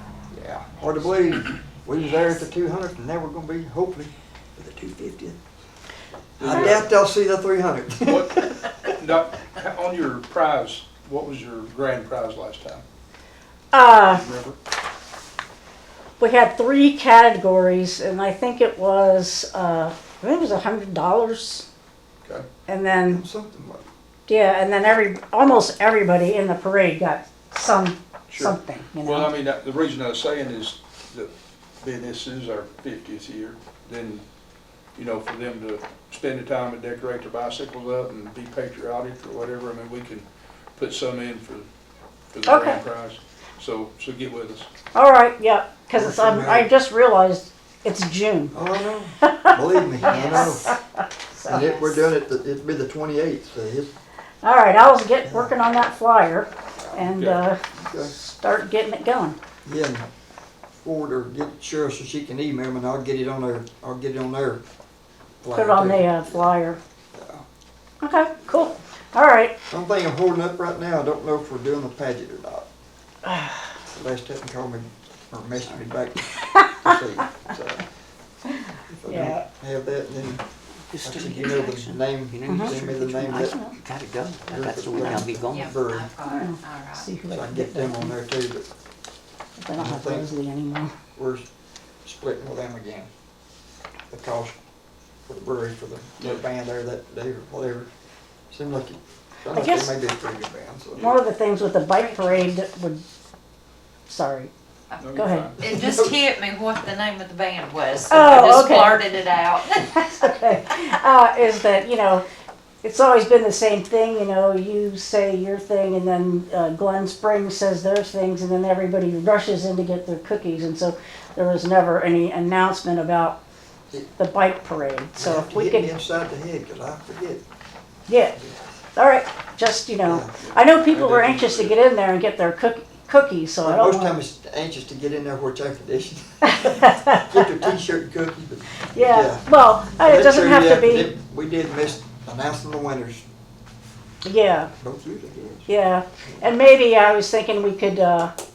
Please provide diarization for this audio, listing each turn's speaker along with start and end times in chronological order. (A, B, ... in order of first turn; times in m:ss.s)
0:00.3-0:05.4 A
0:06.4-0:06.9 B
0:06.4-0:08.6 A
0:08.0-0:12.8 B
0:13.7-0:14.2 C
0:14.1-0:14.6 B
0:16.2-0:21.7 C
0:22.7-0:23.2 C
0:22.9-0:23.8 A
0:24.3-0:29.3 C
0:28.3-0:31.3 B
0:31.8-0:34.2 B
0:35.0-0:41.7 B
0:42.3-0:44.7 B
0:42.4-0:42.8 C
0:45.0-0:48.6 C
0:45.9-0:46.7 A
0:48.5-0:50.7 A
0:49.2-0:51.6 C
0:50.0-0:50.6 D
0:51.4-0:52.0 D
0:51.5-0:53.9 A
0:54.4-0:59.4 C
0:55.2-0:55.5 A
0:57.1-0:57.4 B
0:57.7-0:58.1 A
0:59.7-1:00.0 A
1:00.8-1:04.6 A
1:05.4-1:06.5 A
1:05.5-1:06.8 C
1:07.1-1:07.4 A
1:08.0-1:09.5 C
1:09.7-1:12.7 A
1:13.3-1:13.6 C
1:13.9-1:17.8 A
1:18.9-1:20.4 A
1:19.1-1:19.4 C
1:20.9-1:25.8 E
1:21.0-1:23.6 A
1:22.5-1:22.7 C
1:23.2-1:23.8 C
1:24.5-1:26.1 A
1:25.5-1:27.1 D
1:26.3-1:28.1 C
1:27.3-1:28.6 A
1:29.6-1:30.9 C
1:29.8-1:30.3 A
1:31.2-1:31.4 A
1:32.0-1:33.1 A
1:34.1-1:34.5 A
1:35.3-1:37.9 A
1:38.5-1:41.2 A
1:39.5-1:40.0 C
1:41.0-1:43.0 C
1:42.0-1:42.4 D
1:44.1-1:44.5 C
1:45.0-1:45.6 B
1:45.2-1:45.5 C
1:45.6-1:46.2 A
1:45.6-1:50.1 D
1:48.1-1:49.0 C
1:49.8-1:52.2 C
1:52.8-2:03.4 C
2:04.2-2:05.9 C
2:05.2-2:07.4 A
2:08.1-2:08.4 C
2:08.4-2:08.6 A
2:09.0-2:14.2 C
2:10.1-2:10.3 A
2:10.4-2:11.8 B
2:13.6-2:23.2 A
2:16.4-2:17.7 C
2:18.9-2:21.1 C
2:24.2-2:24.7 C
2:24.8-2:25.7 A
2:25.7-2:28.3 C